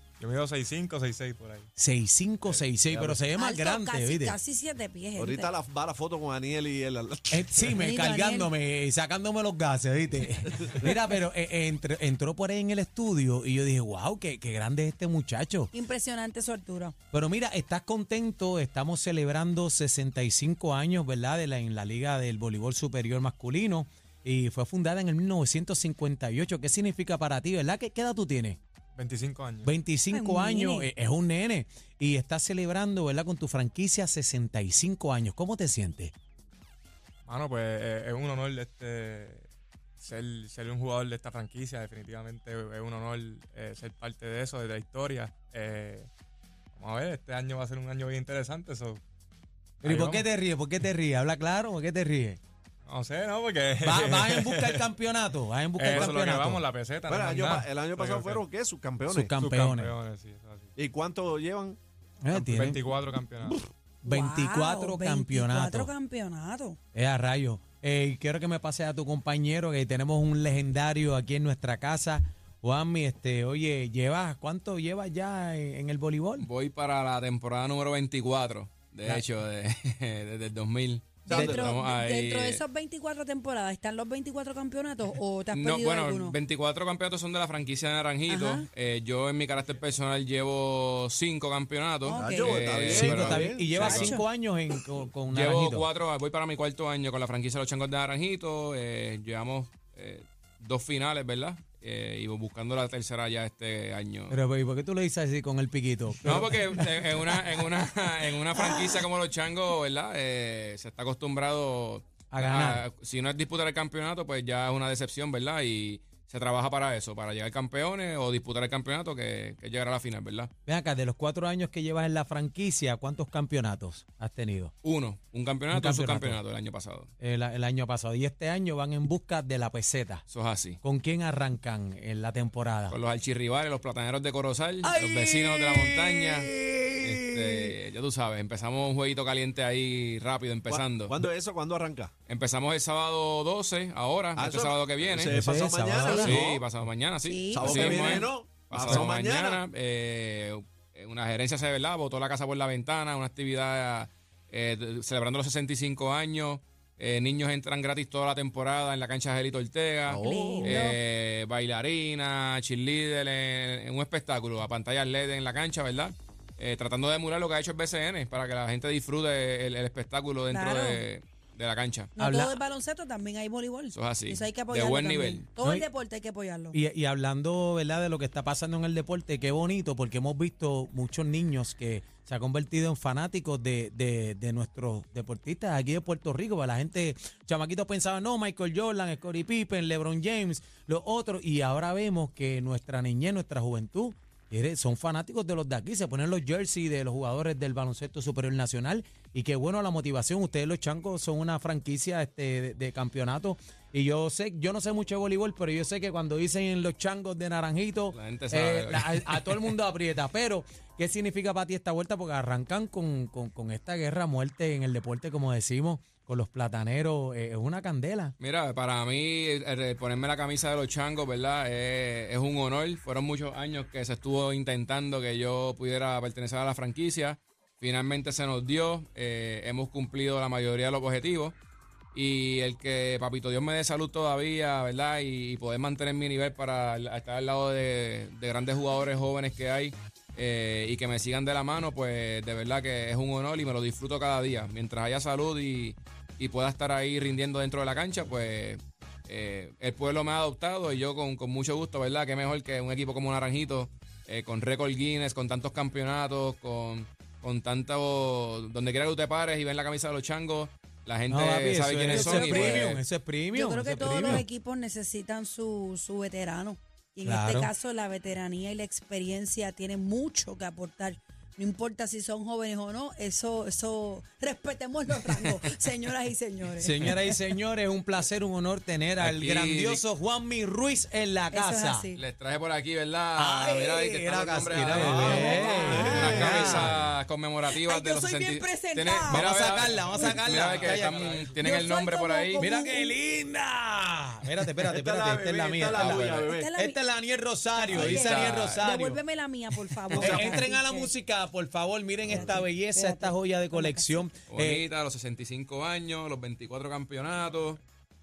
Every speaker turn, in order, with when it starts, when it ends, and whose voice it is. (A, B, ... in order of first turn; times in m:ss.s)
0:00.2-0:01.7 A
0:01.8-0:04.4 B
0:02.4-0:03.2 A
0:03.3-0:05.5 C
0:05.2-0:07.7 D
0:07.3-0:15.7 B
0:07.7-0:08.5 C
0:15.7-0:16.9 C
0:17.1-0:28.6 B
0:29.0-0:29.7 A
0:29.6-0:36.1 B
0:30.1-0:30.9 C
0:37.2-0:39.5 A
0:40.0-0:46.1 A
0:46.7-0:49.0 A
0:49.8-0:50.2 A
0:49.8-0:52.4 B
0:52.8-0:54.8 A
0:53.8-0:56.6 B
0:55.8-0:58.4 A
0:57.1-0:59.3 D
0:59.1-0:59.9 B
0:59.3-1:00.7 A
1:00.7-1:01.8 D
1:02.2-1:02.8 B
1:02.3-1:03.6 A
1:04.0-1:05.9 B
1:04.0-1:06.8 C
1:06.9-1:16.5 B
1:16.4-1:22.6 E
1:21.3-1:21.8 D
1:21.3-1:21.6 B
1:21.4-1:26.4 C
1:25.5-1:34.2 E
1:28.3-1:28.7 C
1:32.0-1:32.7 C
1:32.1-1:33.9 D
1:32.6-1:35.9 B
1:33.8-1:34.2 C
1:35.3-1:44.4 E
1:44.3-1:47.4 B
1:46.2-2:00.5 E
1:48.5-1:48.9 B
1:52.3-1:52.8 B
2:00.6-2:04.7 B
2:04.8-2:07.1 E
2:05.7-2:06.4 B
2:07.2-2:10.2 B
2:10.3-2:10.8 E
2:10.8-2:13.0 B
2:12.9-2:16.5 E
2:14.8-2:17.7 B
2:17.0-2:21.2 E
2:20.7-2:22.1 D
2:22.3-2:25.3 E
2:24.4-2:26.6 D
2:25.2-2:26.4 B
2:26.0-2:52.1 E
2:27.2-2:28.3 C
2:27.5-2:29.6 D
2:40.1-2:40.8 D
2:40.2-2:41.0 C
2:50.5-2:51.0 C
2:52.2-2:56.8 C
2:52.2-2:52.6 B
2:53.9-2:55.5 E
2:55.6-2:55.9 B
2:56.7-3:38.3 B
3:28.1-3:29.7 E
3:38.4-3:51.6 E
3:52.1-4:23.0 E
4:21.3-4:24.4 B
4:22.1-4:22.9 C
4:23.5-4:37.4 C
4:27.2-4:27.7 B
4:36.8-4:42.1 B
4:39.2-4:40.0 E
4:41.5-4:42.2 C
4:42.1-4:52.6 E
4:43.4-4:47.0 B
4:45.0-4:47.0 D
4:45.2-4:46.4 C
4:47.7-4:50.5 C
4:49.3-4:51.2 B
4:50.8-4:51.1 A
4:51.5-4:53.2 C
4:52.6-4:59.2 B
4:54.8-4:56.7 D
4:55.9-4:56.5 E
4:56.5-4:57.0 C
4:57.8-5:01.1 C
4:57.9-4:58.9 E
5:00.1-5:04.8 B
5:00.1-5:00.7 D
5:02.3-5:04.1 C
5:04.5-5:07.8 E